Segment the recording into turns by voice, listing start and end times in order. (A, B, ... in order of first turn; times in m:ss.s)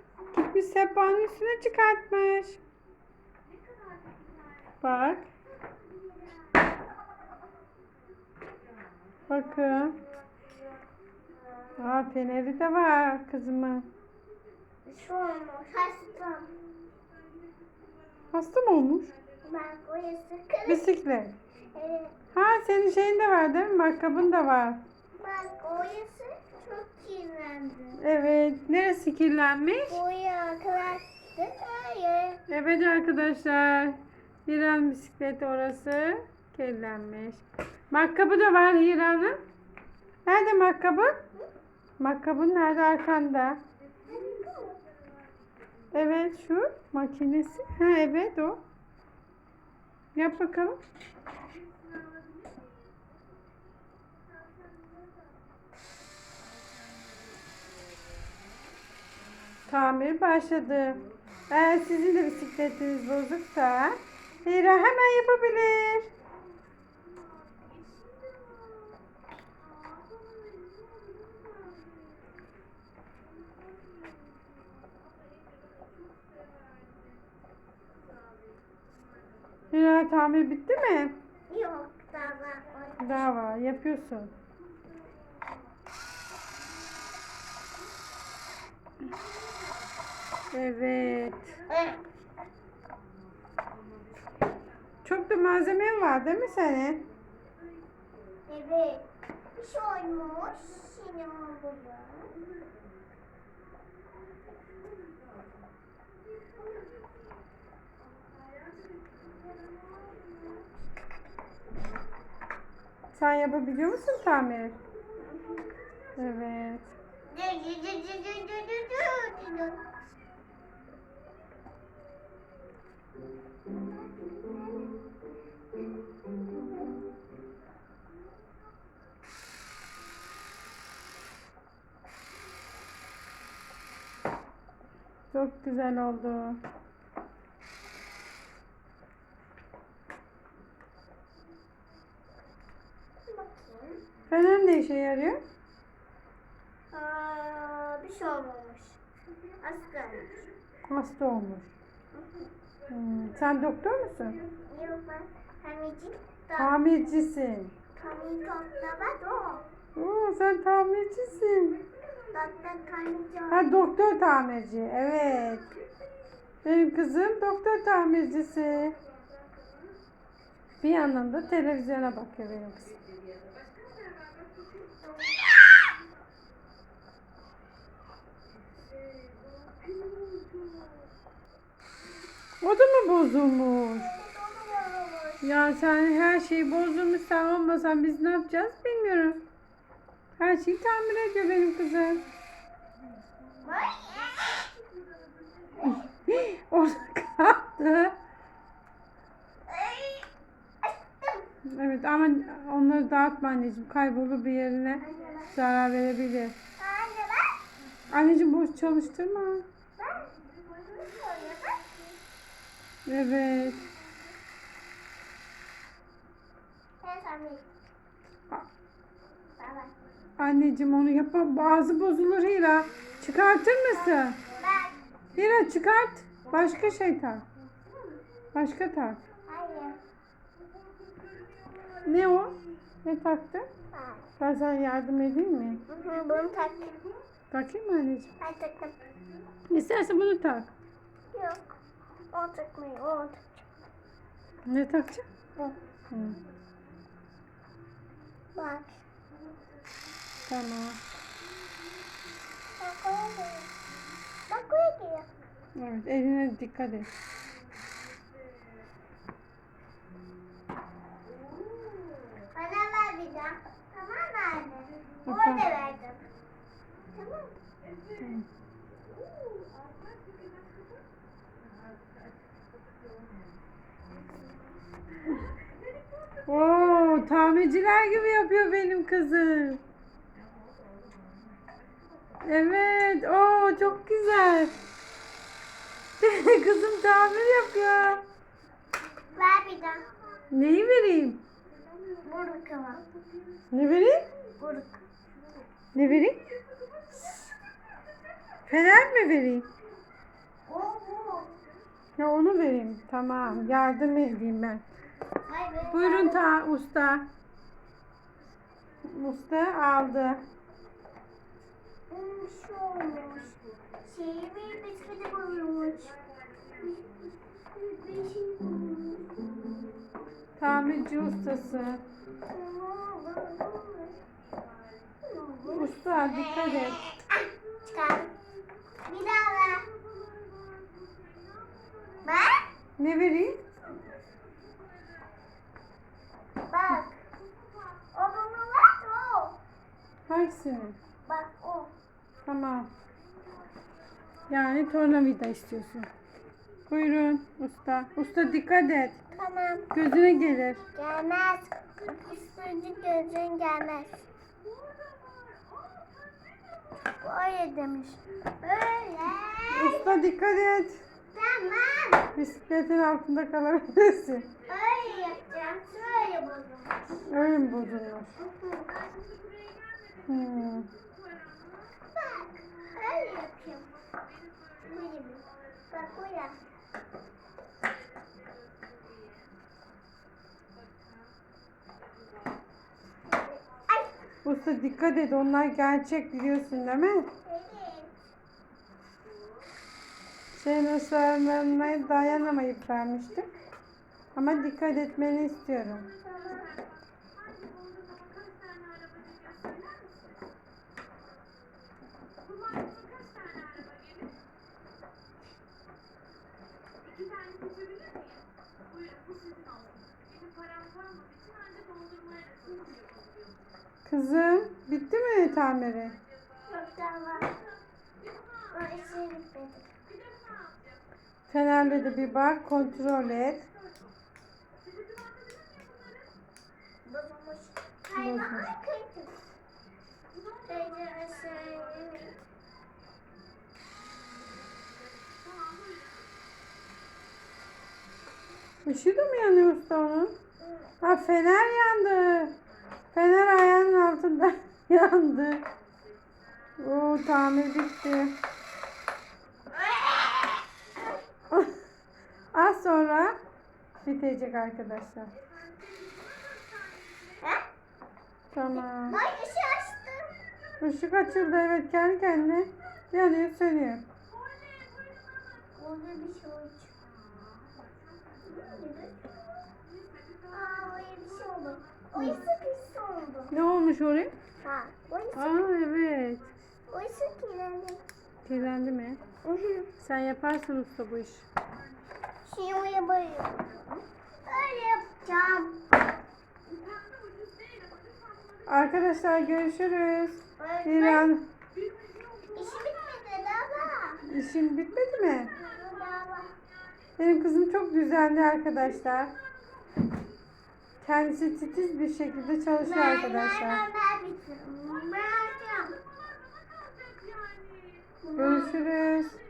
0:00.3-0:02.6 A
0:04.8-0:05.3 A
0:05.8-0:06.6 B
0:09.3-0:10.0 A
0:11.8-0:13.9 A
0:14.8-0:16.5 B
0:18.3-0:19.1 A
0:19.4-0:20.9 B
0:20.7-0:21.3 A
0:21.7-0:22.2 B
0:22.3-0:24.8 A
0:25.2-0:28.0 B
0:28.0-0:30.0 A
0:29.9-0:32.4 B
0:32.5-0:39.4 A
0:40.2-0:41.2 A
0:42.0-0:43.6 A
0:44.0-0:44.8 B
0:45.9-0:48.6 A
0:50.1-0:50.8 A
0:59.7-1:06.1 A
1:19.7-1:21.2 A
1:21.5-1:23.2 B
1:23.0-1:24.3 A
1:30.5-1:31.6 A
1:31.7-1:32.0 B
1:35.0-1:37.0 A
1:38.5-1:42.4 B
1:53.1-1:54.8 A
1:55.4-1:55.7 B
1:56.2-1:56.9 A
1:57.2-1:59.9 B
2:04.2-2:04.9 B
2:15.3-2:16.6 A
2:23.3-2:24.0 B
2:24.3-2:25.4 A
2:26.9-2:29.0 B
2:29.6-2:30.3 B
2:30.9-2:31.7 A
2:32.1-2:32.5 B
2:32.9-2:34.4 A
2:34.7-2:36.7 B
2:36.6-2:37.7 A
2:38.0-2:39.6 B
2:39.9-2:41.8 A
2:42.3-2:43.7 B
2:43.5-2:45.7 A
2:46.6-2:49.0 A
2:50.8-2:53.0 A
2:55.0-2:55.5 B
3:02.6-3:04.1 A
3:03.9-3:05.5 B
3:05.4-3:09.4 A
3:10.4-3:12.2 A
3:13.6-3:14.7 B
3:15.8-3:18.1 A
3:19.7-3:20.3 B
3:20.8-3:21.4 B
3:21.6-3:26.6 A
3:25.0-3:25.6 B
3:26.8-3:27.6 B
3:28.1-3:29.6 A
3:30.0-3:30.3 B
3:30.8-3:32.2 B
3:33.1-3:33.8 A
3:37.0-3:37.6 B
3:39.6-3:39.9 B
3:40.4-3:44.4 A
3:43.9-3:45.0 B
3:45.4-3:47.4 A
3:48.5-3:49.2 A
3:49.4-3:50.0 B
3:52.0-3:53.7 A
3:53.9-3:54.3 B
3:54.4-3:55.8 A
3:55.9-3:57.0 B
3:57.5-3:58.3 A
3:58.4-3:59.0 B
3:59.7-4:00.7 A
4:01.3-4:01.7 B
4:02.3-4:03.6 B
4:04.6-4:06.4 A
4:08.5-4:09.0 B
4:10.5-4:11.0 A
4:12.8-4:13.7 B
4:14.5-4:15.3 B
4:15.8-4:17.1 A
4:22.5-4:26.3 B
4:25.2-4:25.6 A
4:27.1-4:27.5 B
4:28.2-4:28.4 A
4:36.4-4:39.8 A
4:42.4-4:44.8 A
4:46.2-4:48.2 A
4:49.3-4:50.1 B
4:50.5-4:51.4 A
4:52.2-4:53.0 B
4:53.7-4:54.3 A
4:54.6-4:55.0 B
4:55.9-4:56.4 A
4:57.1-4:57.5 B
4:58.6-4:59.7 A
5:00.7-5:01.5 B
5:02.2-5:04.8 A
5:05.4-5:06.5 B
5:05.9-5:07.3 A
5:09.0-5:10.4 A
5:12.1-5:16.1 B
5:17.8-5:19.6 B
5:20.6-5:22.0 A
5:22.5-5:24.2 B
5:25.2-5:28.3 B
5:25.7-5:27.0 A
5:29.0-5:29.9 B
5:32.2-5:32.7 B
5:33.0-5:33.6 A
5:36.7-5:37.2 B
5:38.1-5:39.6 B
5:40.3-5:41.0 A
5:41.2-5:41.9 B
5:42.4-5:42.9 A
5:44.5-5:46.1 A
5:46.9-5:49.2 A
5:49.3-5:50.0 B
5:49.9-5:50.8 A
5:50.8-5:54.2 B
5:57.1-6:00.2 B
5:59.7-6:01.0 A
6:01.3-6:02.3 B
6:02.3-6:04.6 A
6:04.6-6:07.3 B
6:07.2-6:08.3 A
6:08.4-6:09.1 B
6:10.2-6:10.9 A
6:12.1-6:13.9 B
6:14.8-6:16.6 B
6:23.3-6:24.1 B
6:24.4-6:27.3 A
6:27.4-6:28.1 B
6:30.6-6:33.5 A
6:34.4-6:36.1 A
6:36.2-6:36.8 B
6:54.0-6:56.2 A
6:56.6-6:57.6 B
6:58.7-6:59.8 B
7:01.5-7:03.7 A
7:07.0-7:09.4 B
7:08.2-7:08.7 A
7:10.6-7:12.4 B
7:18.8-7:20.3 A
7:20.6-7:20.9 B
7:21.0-7:22.6 A
7:23.1-7:25.6 A
7:26.8-7:28.4 A
7:29.7-7:30.6 B
7:32.5-7:33.4 A
7:34.0-7:35.3 A
7:37.4-7:37.6 B
7:38.5-7:39.2 A
7:39.0-7:40.3 B
7:40.8-7:44.0 A
7:45.7-7:46.9 B
7:48.4-7:49.4 B
7:50.5-7:53.5 B
7:53.5-7:54.3 A
7:54.6-7:55.6 B
7:55.4-7:56.5 A
7:56.9-7:58.0 B
7:58.4-7:59.2 A
7:59.4-7:59.9 B
8:00.0-8:01.5 A
8:02.4-8:03.8 B
8:04.4-8:05.8 B
8:08.7-8:11.4 A
8:10.6-8:11.3 B
8:12.5-8:14.2 B
8:14.2-8:15.5 A
8:15.5-8:16.6 B
8:17.2-8:19.4 A
8:21.0-8:23.8 A
8:22.8-8:26.0 B
8:28.2-8:28.8 B
8:28.4-8:29.4 A